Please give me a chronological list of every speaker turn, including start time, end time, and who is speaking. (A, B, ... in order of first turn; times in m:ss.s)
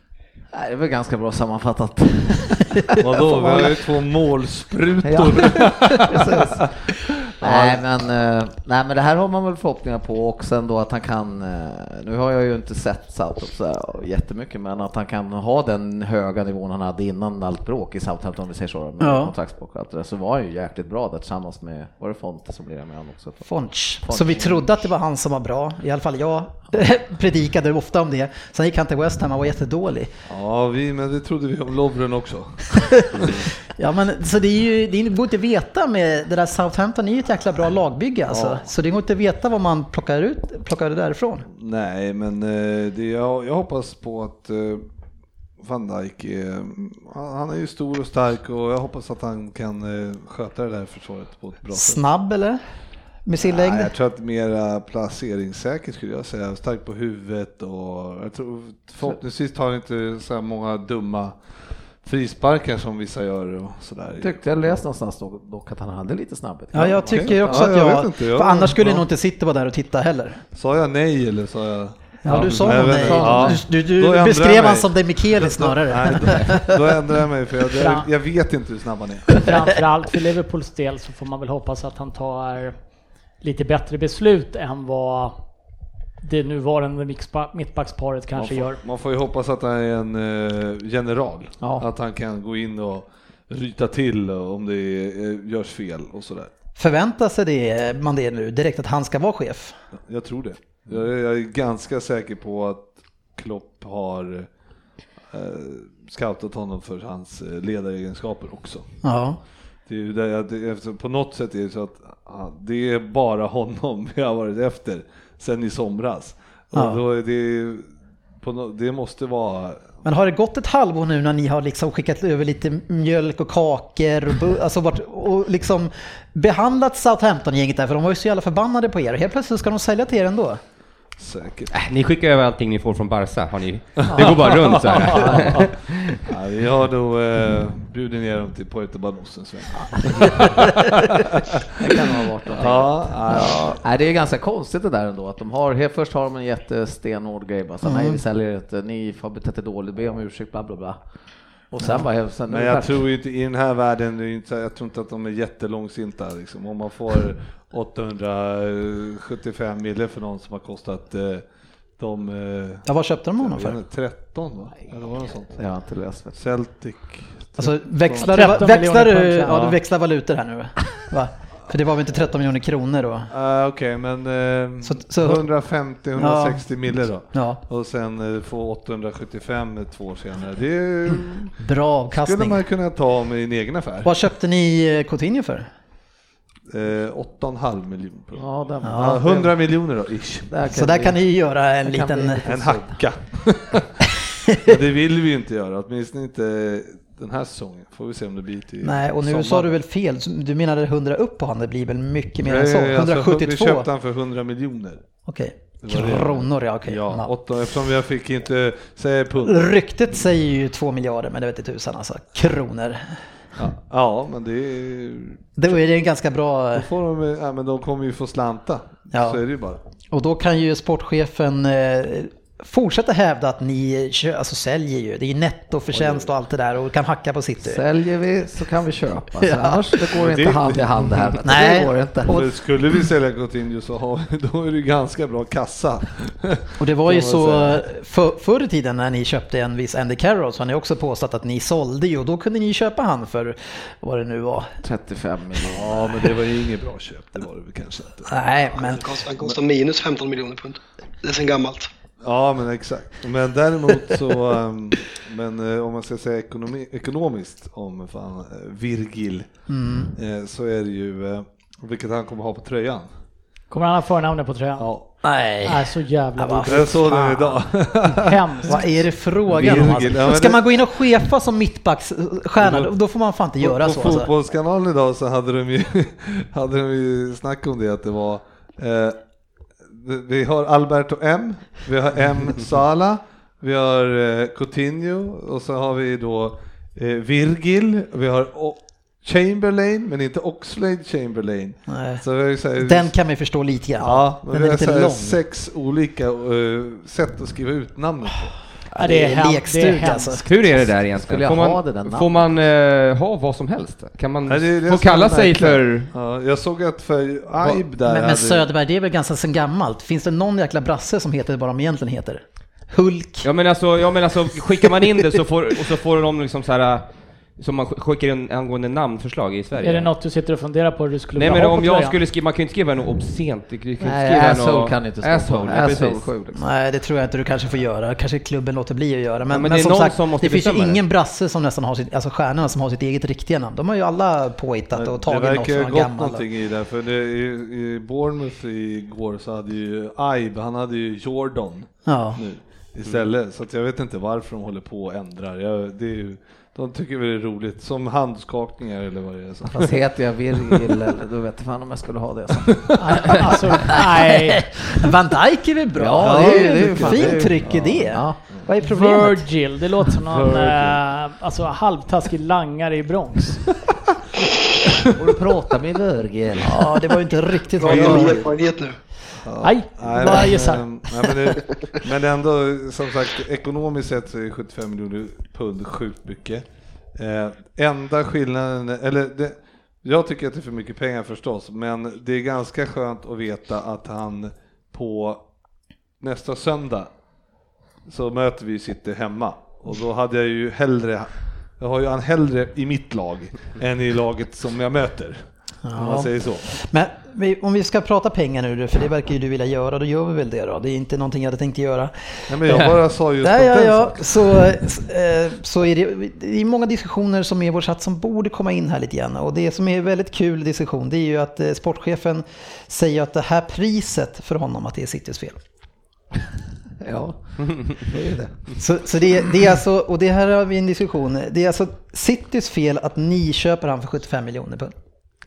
0:00.5-0:02.9 A
0:02.7-0:03.7 B
0:03.0-0:08.0 C
0:05.0-0:06.0 B
0:06.1-0:06.7 A
0:07.4-0:24.6 A
0:19.0-0:19.3 B
0:23.4-0:30.1 B
0:30.3-0:33.3 C
0:33.8-0:41.5 B
0:38.3-0:38.6 C
0:41.5-0:44.8 C
0:45.6-0:52.0 C
0:51.7-0:52.6 B
0:53.2-0:53.9 B
0:53.4-1:01.4 C
1:02.0-1:04.8 C
1:04.2-1:07.7 A
1:06.7-1:10.4 B
1:07.0-1:09.0 C
1:10.5-1:19.5 C
1:12.2-1:16.8 B
1:12.3-1:13.6 A
1:17.8-1:18.1 D
1:19.4-1:22.8 D
1:23.4-1:25.4 D
1:26.2-1:28.8 D
1:28.3-1:36.5 C
1:31.6-1:31.9 A
1:36.8-1:39.8 B
1:40.1-1:44.5 C
1:45.3-1:48.9 C
1:49.0-1:49.4 B
1:49.9-1:59.9 C
1:56.7-1:57.0 B
2:00.0-2:10.6 B
2:11.2-2:11.7 C
2:11.7-2:16.2 E
2:14.1-2:21.1 C
2:21.8-2:33.0 A
2:22.6-2:23.8 C
2:23.3-2:23.8 B
2:27.8-2:28.2 B
2:32.5-2:41.4 C
2:42.0-2:42.8 C
2:42.8-2:43.8 B
2:43.4-2:45.6 C
2:45.6-2:46.4 A
2:46.3-2:48.7 C
2:47.6-2:53.3 B
2:48.2-2:49.6 D
2:49.5-2:49.8 C
2:53.3-3:01.5 C
2:54.8-2:55.5 B
2:56.2-2:56.6 B
2:57.3-2:57.6 B
3:01.6-3:02.6 B
3:02.1-3:04.1 C
3:04.0-3:05.7 B
3:06.7-3:10.5 C
3:08.3-3:09.5 A
3:08.8-3:09.4 B
3:10.5-3:11.2 A
3:10.7-3:12.4 B
3:11.8-3:13.0 A
3:12.4-3:14.0 C
3:14.6-3:19.7 C
3:18.8-3:23.9 B
3:22.4-3:25.0 C
3:25.2-3:27.3 B
3:25.8-3:29.7 C
3:29.4-3:33.2 B
3:33.6-3:35.4 C
3:35.6-3:36.9 B
3:36.8-3:39.8 C
3:39.1-3:39.4 B
3:40.1-3:47.8 B
3:47.6-3:52.4 A
3:49.4-3:49.9 B
3:50.1-3:51.4 C
3:51.4-3:52.5 B
3:52.2-3:57.8 C
3:56.8-4:04.7 B
4:04.8-4:06.3 A
4:05.6-4:08.4 C
4:08.3-4:09.0 B
4:08.7-4:11.9 F
4:12.2-4:19.6 C
4:19.7-4:20.1 B
4:20.1-4:23.1 C
4:23.7-4:24.8 D
4:24.8-4:25.0 C
4:25.2-4:27.6 B
4:25.6-4:27.0 D
4:26.7-4:28.7 C
4:28.2-4:29.0 D
4:28.7-4:34.3 B
4:29.5-4:31.0 C
4:29.6-4:30.1 D
4:32.6-4:32.9 C
4:33.6-4:39.2 C
4:40.0-4:53.1 C
4:51.9-4:52.2 B
4:52.8-4:55.4 B
4:54.0-4:58.6 C
4:58.9-5:00.4 B
4:59.0-5:00.5 D
5:00.4-5:06.1 E
5:01.0-5:02.4 A
5:04.5-5:08.6 C
5:07.6-5:13.5 B
5:13.4-5:20.1 E
5:19.8-5:22.2 D
5:21.3-5:26.3 E
5:24.0-5:26.6 A
5:26.5-5:36.4 B
5:29.5-5:31.0 E
5:34.9-5:50.0 C
5:42.0-5:42.4 B
5:49.7-5:52.7 A
5:50.5-5:51.1 C
5:52.6-5:53.0 C
5:53.0-5:54.6 D
5:54.2-5:59.5 B
5:56.0-5:58.4 A
5:56.2-5:57.9 C
5:58.8-6:03.6 D
6:00.3-6:01.0 C
6:05.2-6:06.9 A
6:06.6-6:08.4 B
6:07.8-6:09.0 F
6:07.8-6:08.5 C
6:09.4-6:25.4 C
6:09.6-6:10.8 D
6:26.2-6:27.1 C
6:28.0-6:36.7 C
6:35.8-6:55.6 B
6:42.5-6:44.6 C
6:57.0-6:58.7 A
6:58.8-7:04.9 B